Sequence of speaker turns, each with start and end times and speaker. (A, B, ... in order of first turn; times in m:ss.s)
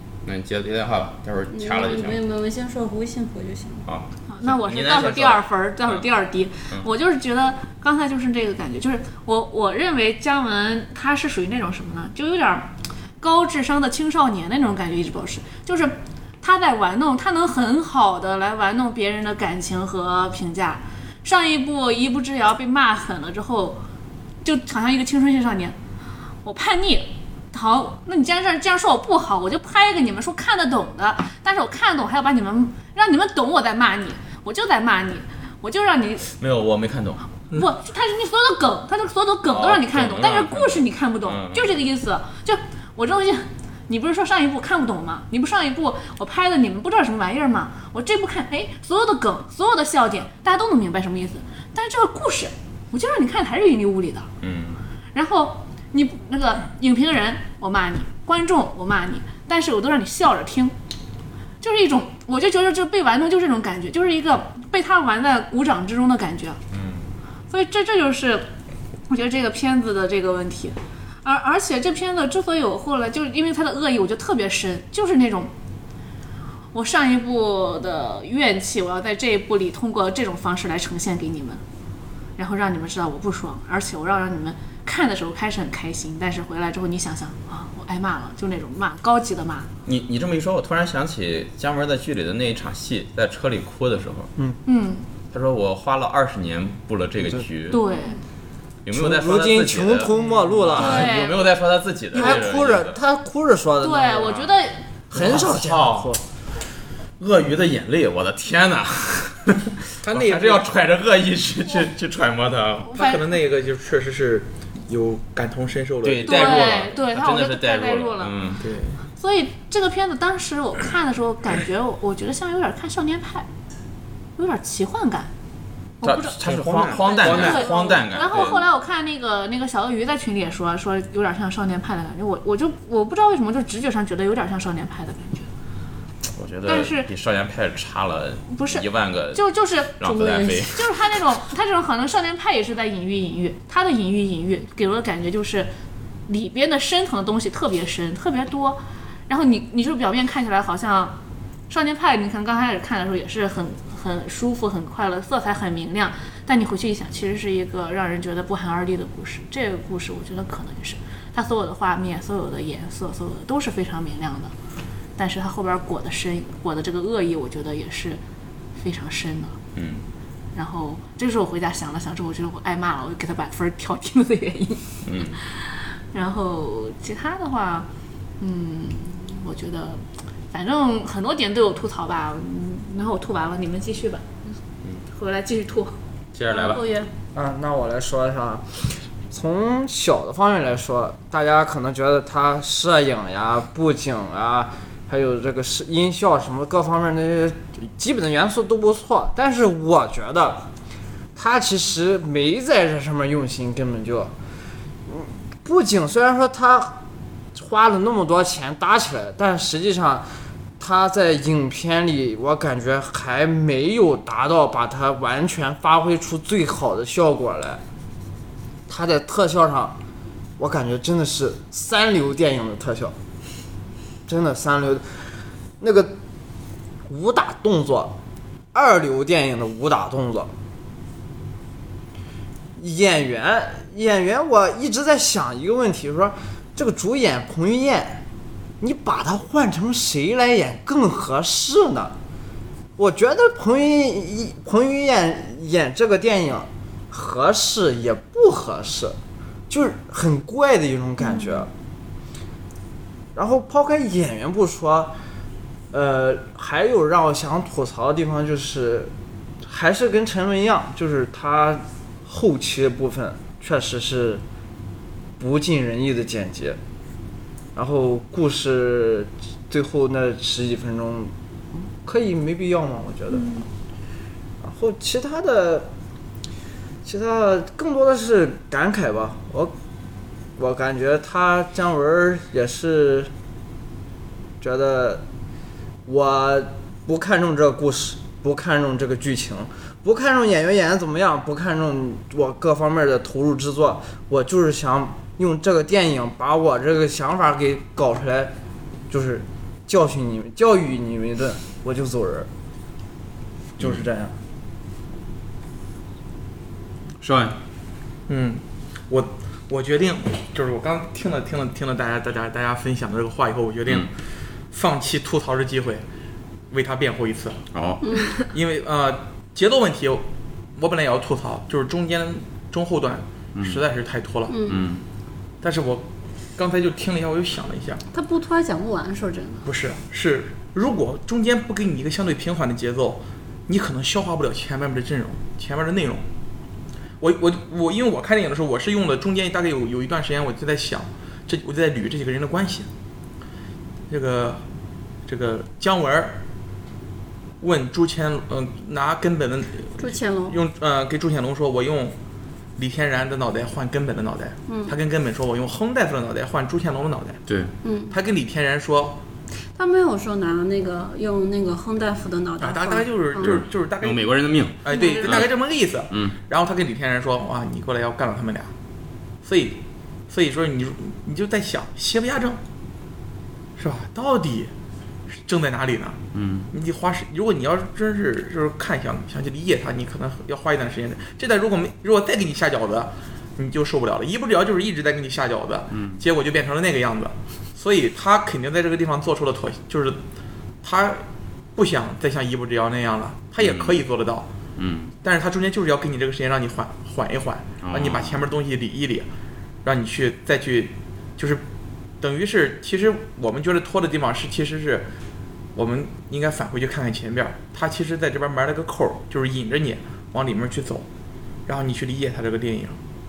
0:00.2-0:02.2 A
0:01.5-0:03.8 B
0:03.9-0:06.0 A
0:04.3-0:23.8 C
0:24.4-0:25.7 C
0:26.4-0:36.2 C
0:36.4-0:37.3 A
0:37.5-0:54.3 C
0:39.4-0:41.7 A
0:54.4-0:54.8 A
0:55.1-1:00.7 C
1:01.6-1:06.6 C
1:06.7-1:07.1 A
1:07.5-1:08.5 C
1:09.1-1:15.5 C
1:16.7-1:21.6 C
1:22.4-1:29.7 C
1:29.8-1:34.3 A
1:34.6-1:35.0 C
1:35.3-1:37.8 A
1:37.7-1:38.2 C
1:38.8-1:43.0 A
1:38.9-1:41.1 D
1:40.8-1:41.5 C
1:42.1-1:44.5 D
1:42.2-1:42.5 C
1:43.8-1:44.8 C
1:45.1-1:46.1 A
1:45.1-1:46.2 D
1:47.2-1:53.0 A
1:50.0-1:50.8 E
1:52.9-1:53.3 C
1:52.9-1:56.8 E
1:56.0-1:58.6 A
1:56.2-1:58.3 C
1:58.6-1:59.0 E
1:59.2-2:03.5 C
2:04.4-2:05.3 C
2:06.0-2:06.4 C
2:06.0-2:08.6 A
2:06.4-2:08.6 E
2:07.0-2:15.5 C
2:16.4-2:19.4 A
2:16.7-2:17.1 C
2:18.5-2:25.7 C
2:20.0-2:20.9 A
2:26.3-2:31.2 C
2:31.7-2:44.5 C
2:45.2-2:48.2 C
2:48.8-2:49.6 C
2:49.8-2:50.0 A
2:50.5-2:57.9 C
2:55.0-2:55.4 A
2:58.4-3:04.5 C
3:05.1-3:05.9 C
3:06.3-3:06.8 A
3:06.5-3:07.1 B
3:07.3-3:20.7 D
3:21.4-3:24.3 D
3:25.1-3:27.0 D
3:27.5-3:30.3 D
3:30.8-3:37.8 D
3:38.9-3:40.0 D
3:40.6-3:43.2 D
3:44.3-3:46.2 D
3:47.1-3:48.2 D
3:48.7-3:50.5 D
3:52.8-3:58.2 D
3:58.8-4:02.2 D
4:03.0-4:09.2 D
4:09.7-4:11.7 D
4:11.2-4:11.7 C
4:13.4-4:15.2 D
4:15.9-4:24.4 D
4:25.4-4:26.8 D
4:27.8-4:33.5 D
4:33.3-4:33.6 C
4:34.6-4:35.9 D
4:37.0-4:39.7 D
4:40.6-4:43.3 D
4:44.6-4:45.2 D
4:46.1-4:58.5 D
4:59.1-5:02.5 D
5:03.8-5:04.4 D
5:07.2-5:07.6 A
5:08.3-5:14.1 E
5:14.7-5:16.0 E
5:16.7-5:17.6 E
5:17.7-5:18.1 A
5:18.0-5:18.4 B
5:18.4-5:20.2 E
5:20.8-5:24.6 E
5:23.5-5:23.8 A
5:24.5-5:24.8 B
5:24.7-5:25.0 A
5:25.6-5:28.0 E
5:28.1-5:29.7 B
5:29.6-5:36.2 E
5:37.2-5:42.9 E
5:44.1-5:44.6 E
5:45.3-5:46.4 E
5:47.6-5:52.2 E
5:50.0-5:50.6 B
5:52.8-5:57.4 E
5:54.7-5:55.0 B
5:57.8-5:58.2 B
5:58.1-5:59.2 E
5:59.8-6:03.6 B
6:02.6-6:08.7 E
6:03.4-6:05.5 A
6:04.9-6:05.5 C
6:06.1-6:06.4 A
6:09.4-6:12.6 E
6:13.8-6:14.7 E
6:15.4-6:16.2 E
6:16.3-6:16.7 A
6:16.7-6:30.2 E
6:25.9-6:26.2 A
6:30.8-6:34.5 E
6:33.6-6:34.0 A
6:34.8-6:35.1 A
6:35.2-6:39.3 E
6:37.8-6:38.4 A
6:39.8-6:41.6 E
6:42.2-6:45.1 E
6:45.8-6:51.1 E
6:51.6-6:53.0 E